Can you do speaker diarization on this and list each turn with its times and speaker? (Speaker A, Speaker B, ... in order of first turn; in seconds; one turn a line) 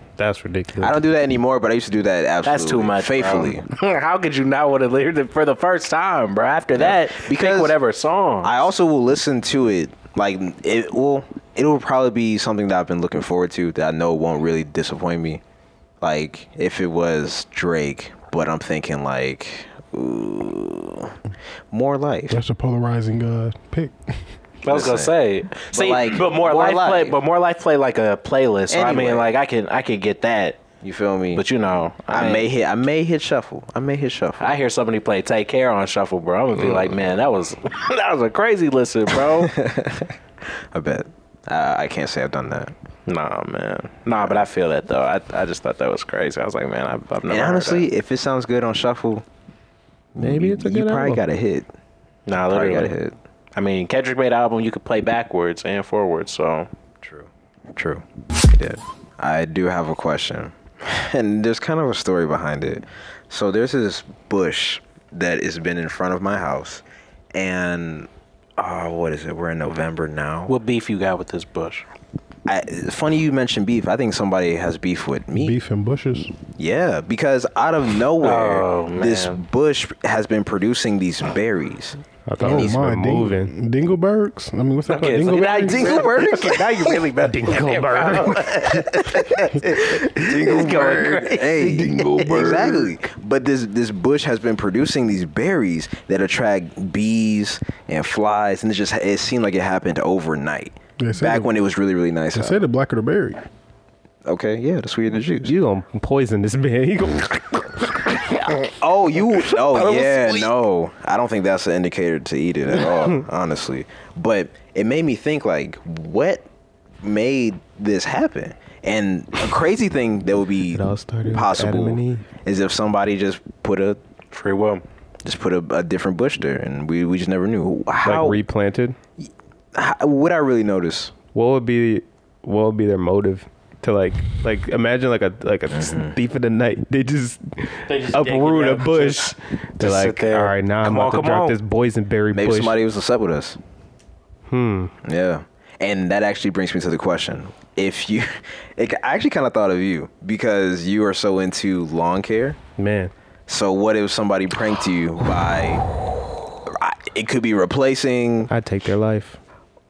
Speaker A: 0.2-0.9
Speaker B: 0.8-3.6
Speaker C: 2.4-8.5
Speaker B: 6.7-7.8
Speaker B: 8.4-15.4
Speaker B: 16.0-21.1
Speaker B: 21.7-22.4
Speaker D: 22.3-23.9
Speaker C: 24.6-30.6
Speaker B: 24.6-25.1
Speaker B: 25.7-27.2
Speaker B: 28.7-29.3
Speaker B: 30.8-31.4
Speaker C: 31.3-32.5
Speaker B: 32.1-34.5
Speaker C: 34.4-39.5
Speaker B: 36.6-37.0
Speaker B: 39.3-40.1
Speaker B: 40.7-42.7
Speaker C: 43.1-47.9
Speaker B: 47.3-49.2
Speaker B: 50.1-51.7
Speaker A: 50.2-51.2
Speaker C: 52.2-52.9
Speaker B: 52.4-53.1
Speaker C: 53.5-56.7
Speaker B: 57.0-66.8
Speaker B: 67.3-70.5
Speaker C: 70.5-71.8
Speaker B: 72.5-75.5
Speaker D: 75.3-76.3
Speaker B: 76.6-82.8
Speaker C: 78.2-79.4
Speaker A: 82.3-83.5
Speaker D: 82.4-86.1
Speaker C: 84.9-92.7
Speaker B: 85.6-87.1
Speaker A: 87.3-88.5
Speaker B: 89.0-102.6
Speaker D: 91.6-92.9
Speaker D: 101.0-101.5
Speaker D: 102.3-103.4
Speaker B: 104.2-105.5
Speaker A: 105.4-108.5
Speaker B: 108.3-116.5
Speaker A: 109.5-110.4
Speaker B: 117.0-124.0
Speaker A: 120.7-122.2
Speaker C: 124.3-124.8
Speaker B: 125.2-128.4
Speaker A: 128.0-128.9
Speaker B: 129.2-131.1
Speaker A: 131.3-142.8
Speaker B: 135.7-136.1
Speaker C: 137.9-141.6
Speaker B: 142.3-143.6
Speaker A: 144.5-144.9
Speaker B: 145.0-152.6
Speaker A: 152.8-153.1
Speaker B: 153.5-155.8
Speaker B: 156.6-158.5
Speaker A: 158.5-159.4